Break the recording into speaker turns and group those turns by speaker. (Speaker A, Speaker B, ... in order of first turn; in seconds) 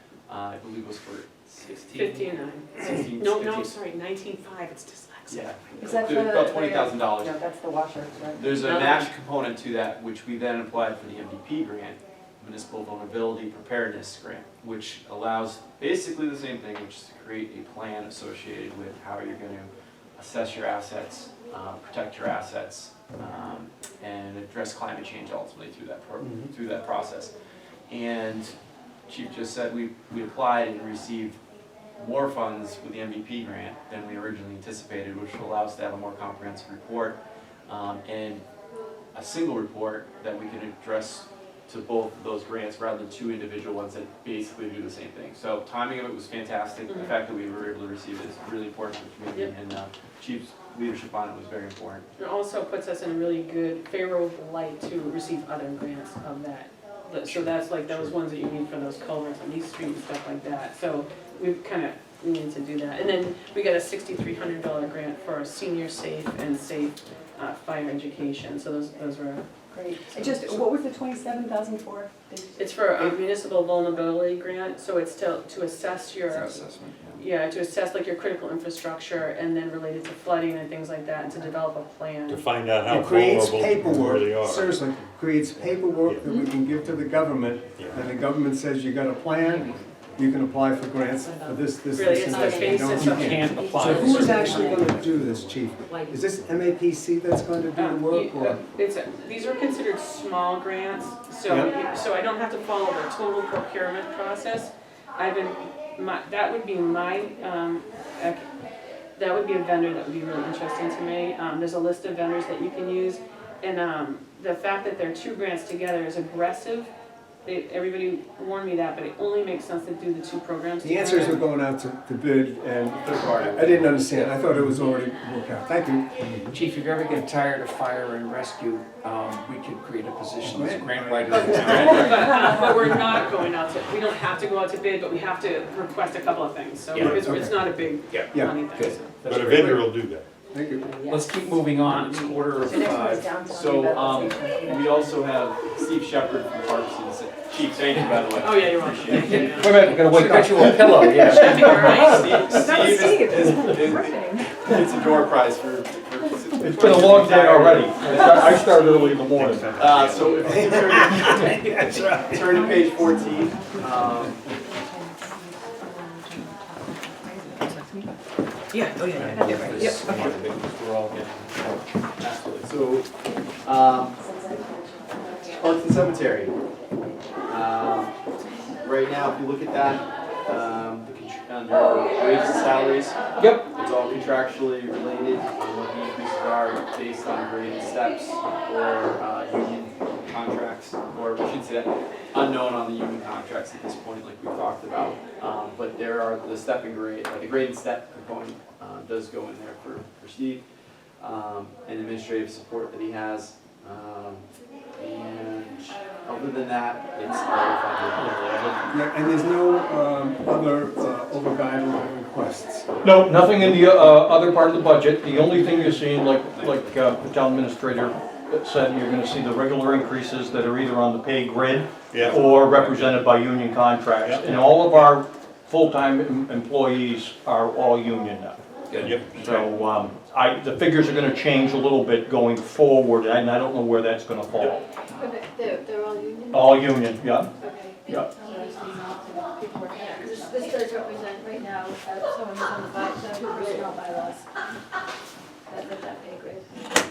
Speaker A: 0.3-3.8, 5.3-7.4, 8.3-27.3, 27.9-28.5, 29.1-31.4, 32.0-38.5, 39.1-52.1, 123.0-124.4, 142.3-149.7, 151.0-159.0, 159.8-164.5, 169.1-173.1, 173.6-174.2, 175.4-176.5, 177.5-178.2, 178.8-200.6, 201.2-204.4, 205.0-208.5, 216.5-217.0
Speaker B: 1.9-6.0, 46.9-47.2, 52.2-69.5, 72.6-82.5, 91.9-93.3, 94.3-94.7, 97.8-108.4, 109.2-116.9, 117.5-121.5, 131.3-139.2, 148.4-153.0
Speaker C: 5.8-8.8, 70.2-70.5, 76.3-77.1, 89.4-89.7, 91.1-91.6, 92.8-95.1, 126.5-132.8, 136.9-137.2, 138.1-139.5, 140.9-145.1, 149.1-154.2, 162.9-165.4, 166.3-168.1, 168.7-170.6, 183.4-183.7, 228.9-229.7
Speaker D: 26.2-26.5, 82.9-98.6, 101.5-101.7, 120.8-126.6, 130.4-132.1, 137.0-137.7, 138.3-138.7, 139.2-139.9, 140.5-140.9, 159.2-162.7, 208.9-214.1
Speaker E: 69.8-72.5, 92.3-95.2, 95.8-96.2, 141.1-141.6, 142.1-144.9, 153.2-154.0, 169.5-169.8
Speaker F: 82.3-84.8, 87.8-88.1, 139.2-140.2, 222.1-223.2, 224.2-224.5, 229.0-229.3
Speaker G: 151.5-152.4, 156.6-160.8, 208.2-208.9, 213.0-234.8, 236.5-237.5, 238.1-238.3
Speaker H: 235.2-236.7, 237.6-244.5, 245.7-246.7